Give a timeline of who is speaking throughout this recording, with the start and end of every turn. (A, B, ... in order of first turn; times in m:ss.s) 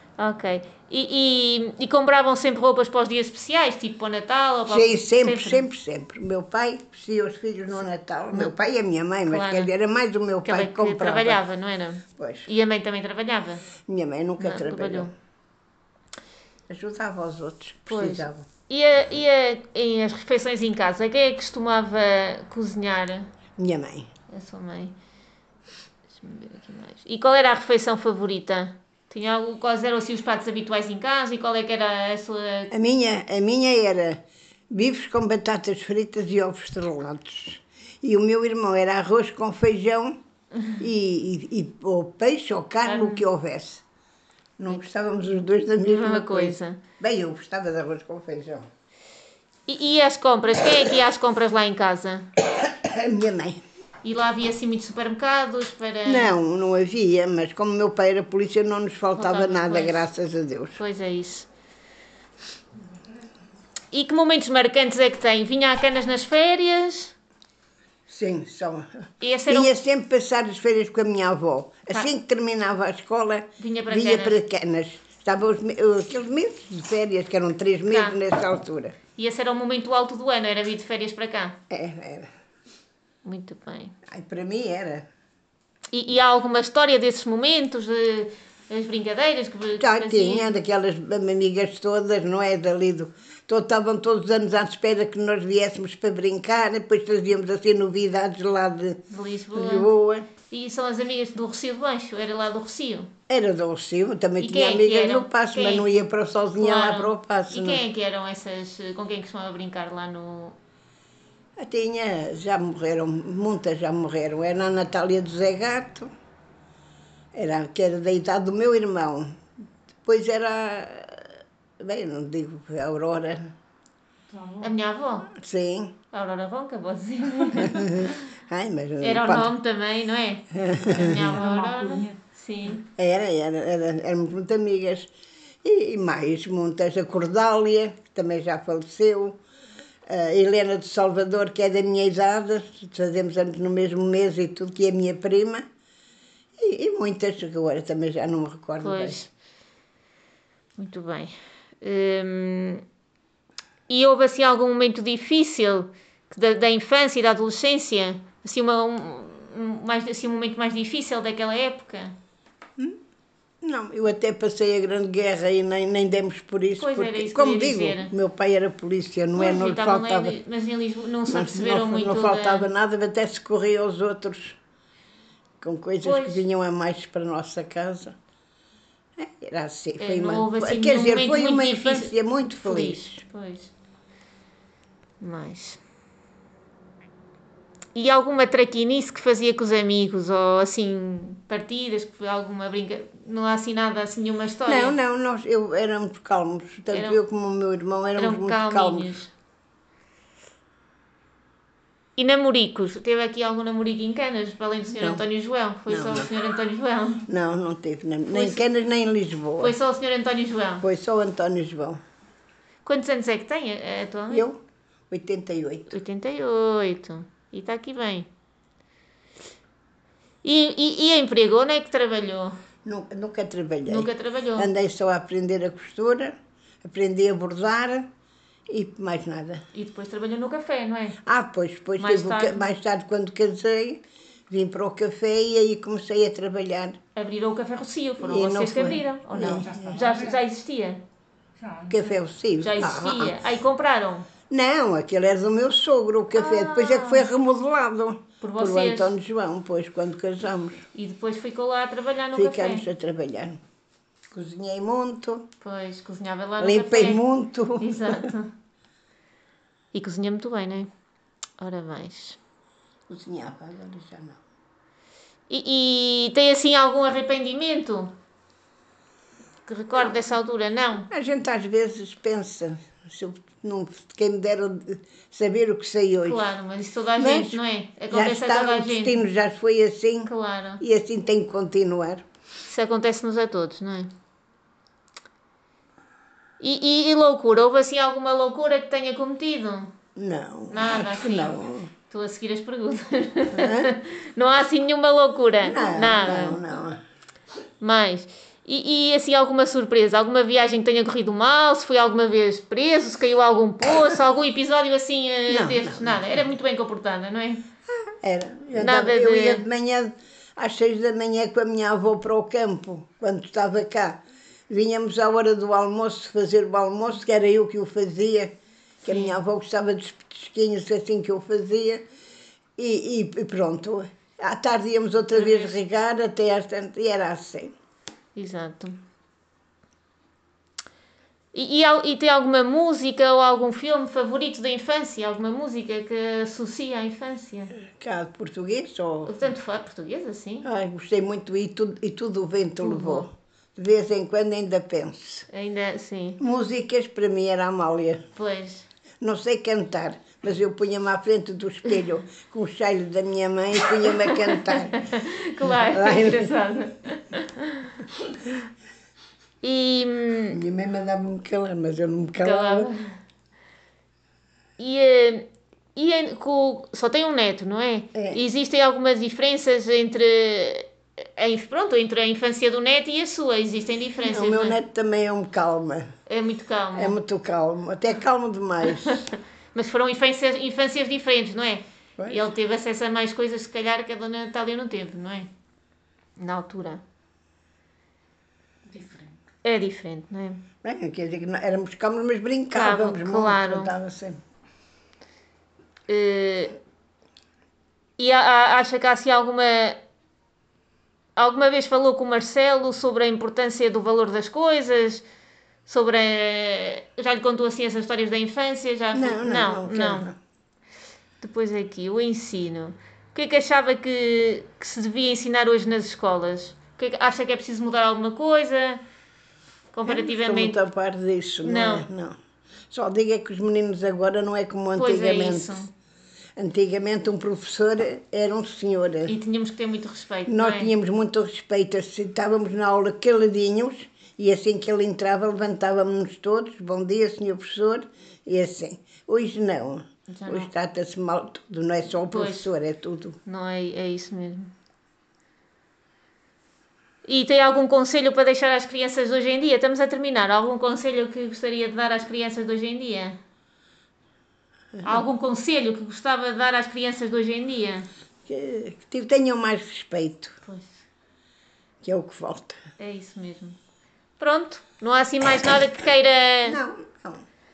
0:00.2-0:05.6 A
0:04.7-0:11.4 B
0:09.3-0:09.7 A
0:10.4-0:13.6 A
0:12.2-0:12.5 B
0:13.8-0:15.1 B
0:14.4-0:15.1 A
0:16.7-0:18.5 B
0:17.9-0:23.3 A
0:23.6-0:24.1 B
0:24.3-0:24.9 A
0:26.1-0:32.7 A
0:32.7-0:34.2 B
0:34.7-0:40.2 B
0:40.8-0:43.8 B
0:42.8-0:43.2 A
0:44.6-0:48.7 B
0:45.8-0:46.8 A
0:49.7-0:52.2 A
0:52.6-0:53.6 B
0:54.0-0:56.4 A
0:56.0-1:00.8 B
0:59.2-1:00.1 A
1:00.8-1:01.5 A
1:03.9-1:07.1 A
1:08.1-1:08.9 B
1:09.2-1:09.7 A
1:09.5-1:19.0 B
1:13.6-1:14.4 A
1:17.9-1:18.2 A
1:19.2-1:21.6 A
1:21.7-1:22.3 B
1:23.2-1:23.9 A
1:24.1-1:25.0 B
1:25.9-1:30.6 A
1:29.8-1:39.0 B
1:39.1-1:39.9 A
1:39.5-1:40.3 B
1:40.4-1:43.1 A
1:43.3-1:47.8 B
1:44.4-1:45.9 A
1:46.5-1:50.6 A
1:51.6-1:56.1 B
1:57.3-1:59.4 B
2:00.0-2:03.5 B
2:04.3-2:04.8 C
2:04.6-2:05.3 A
2:05.3-2:05.9 B
2:06.1-2:08.3 A
2:07.6-2:09.5 B
2:09.0-2:12.8 A
2:10.5-2:11.3 B
2:11.1-2:12.2 C
2:13.0-2:15.1 B
2:15.6-2:19.4 B
2:20.0-2:25.6 B
2:26.6-2:29.2 B
2:28.8-2:29.3 A
2:30.8-2:32.8 A
2:33.9-2:42.1 A
2:43.6-2:50.4 B
2:46.8-2:48.1 A
2:49.3-2:52.7 A
2:51.3-2:54.6 B
2:55.6-2:58.2 B
2:56.0-2:56.4 A
2:59.2-3:03.2 B
3:00.0-3:03.7 A
3:05.2-3:05.8 A
3:07.9-3:15.0 A
3:14.6-3:19.2 B
3:16.9-3:17.2 A
3:18.2-3:19.3 A
3:22.2-3:27.3 A
3:25.0-3:25.2 B
3:25.9-3:26.3 B
3:27.3-3:29.7 B
3:28.3-3:28.6 A
3:29.6-3:30.8 A
3:30.8-3:32.0 B
3:32.8-3:34.4 A
3:34.3-3:34.6 B
3:35.1-3:35.9 B
3:35.9-3:38.3 A
3:40.4-3:42.6 A
3:42.8-3:48.1 B
3:43.8-3:44.7 A
3:48.7-3:49.6 B
3:49.7-3:51.2 A
3:51.2-3:57.0 B
3:52.0-3:52.7 A
3:57.1-4:01.0 A
3:58.2-3:59.8 B
3:59.4-4:00.4 C
4:01.6-4:02.2 C
4:01.9-4:03.4 B
4:02.6-4:04.3 A
4:04.5-4:10.9 B
4:06.3-4:07.3 A
4:08.4-4:09.1 A
4:10.9-4:12.8 A
4:12.3-4:13.6 B
4:14.3-4:15.5 B
4:15.6-4:17.2 A
4:16.6-4:18.3 B
4:17.8-4:18.5 A
4:19.9-4:20.9 A
4:21.6-4:22.4 A
4:23.1-4:24.4 B
4:25.5-4:28.1 A
4:29.6-4:31.1 A
4:31.1-4:36.5 B
4:36.2-4:39.2 A
4:37.2-4:42.2 B
4:40.2-4:40.8 A
4:42.6-4:44.1 A
4:46.6-4:49.9 A
4:50.2-4:51.9 B
4:50.7-4:56.6 A
4:53.5-4:53.9 B
4:55.6-4:57.0 B
4:57.8-5:07.6 A
5:05.5-5:06.4 B
5:07.9-5:22.0 B
5:08.8-5:09.6 A
5:19.0-5:19.3 A
5:22.8-5:27.7 B
5:25.3-5:25.7 A
5:28.3-5:29.0 A
5:31.5-5:37.7 A
5:37.8-5:39.3 B
5:39.2-5:40.7 A
5:40.6-5:45.5 B
5:42.8-5:43.3 A
5:45.5-5:46.4 A
5:46.4-5:48.2 B
5:48.4-5:48.9 A
5:49.2-5:55.0 B
5:54.5-5:57.9 A
5:55.6-5:56.6 B
5:59.6-6:00.6 A
6:00.5-6:02.9 B
6:02.4-6:03.2 A
6:04.8-6:14.8 A
6:08.1-6:08.4 B
6:14.2-6:16.1 B
6:16.3-6:17.2 A
6:16.9-6:19.3 B
6:18.9-6:25.5 A
6:22.2-6:22.5 B
6:26.4-6:27.0 A
6:28.9-6:29.3 C
6:29.6-6:30.6 A
6:30.8-6:34.4 B
6:32.7-6:33.9 A
6:36.1-6:36.8 A
6:38.2-6:40.0 A
6:41.4-6:45.2 A
6:45.8-6:50.3 A
6:49.1-6:50.3 B
6:51.4-6:59.0 A
6:59.9-7:00.8 A
7:00.0-7:02.4 B
7:01.6-7:02.1 A
7:02.9-7:05.8 B
7:04.9-7:05.9 A
7:06.6-7:09.3 B
7:09.3-7:10.9 A
7:10.5-7:23.4 B
7:20.3-7:20.7 A
7:22.3-7:22.7 A
7:23.4-7:24.7 A
7:27.2-7:33.4 A
7:34.9-7:35.2 B
7:35.0-7:38.1 A
7:38.5-7:40.6 B
7:40.6-7:41.0 A
7:42.0-7:42.8 B
7:43.0-7:43.8 A
7:44.4-7:46.8 A
7:46.6-7:47.4 B